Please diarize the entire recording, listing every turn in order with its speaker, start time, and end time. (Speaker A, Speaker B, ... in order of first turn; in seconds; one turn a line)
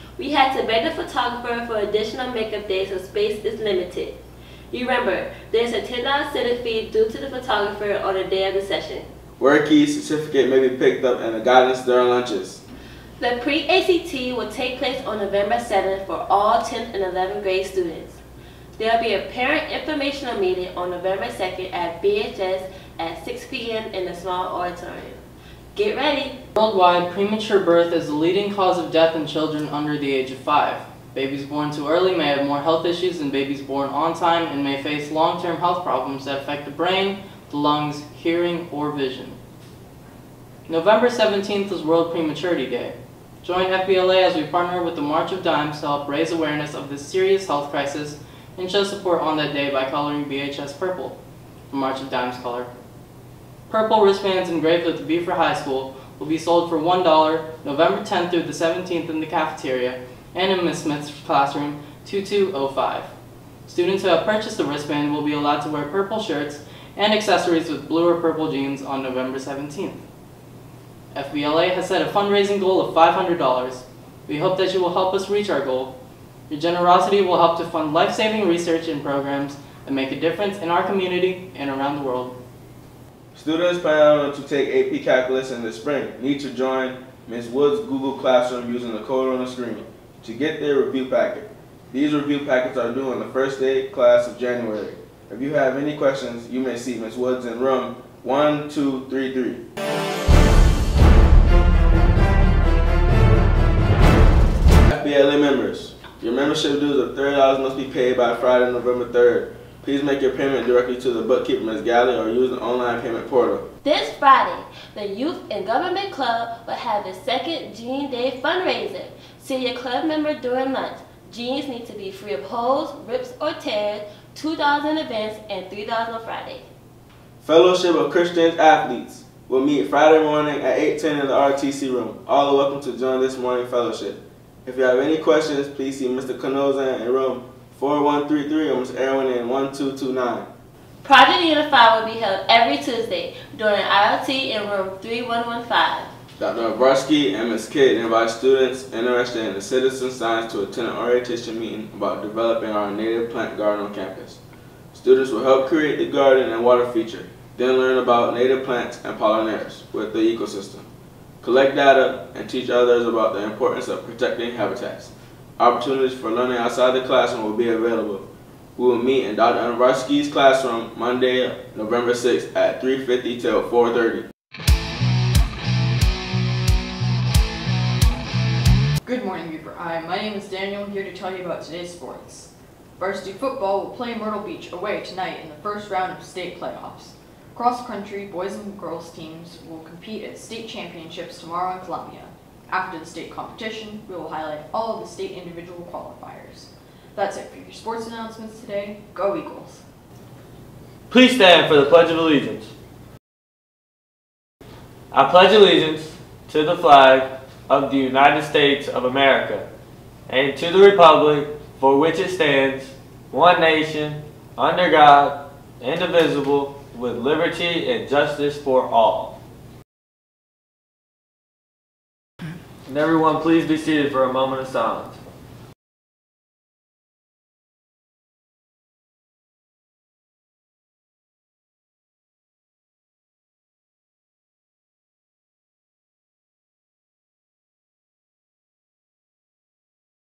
Speaker A: 0.2-4.2
Speaker A: 4.7-9.1
Speaker B: 9.4-12.6
Speaker A: 13.2-18.2
Speaker A: 18.8-25.2
Speaker A: 25.7-26.4
Speaker C: 26.6-39.4
Speaker C: 40.7-51.1
Speaker C: 51.7-52.7
Speaker C: 53.7-63.1
Speaker C: 63.7-70.0
Speaker C: 71.1-75.9
Speaker C: 76.5-82.3
Speaker B: 83.3-99.6
Speaker B: 104.9-113.6
Speaker A: 113.8-126.7
Speaker B: 127.4-140.5
Speaker A: 141.0-146.1
Speaker B: 146.4-154.4
Speaker B: 154.9-160.9
Speaker B: 161.4-168.2
Speaker B: 168.8-174.3
Speaker D: 179.0-199.8
Speaker E: 201.1-202.7
Speaker E: 205.1-209.7
Speaker E: 210.3-219.4
Speaker E: 222.9-225.2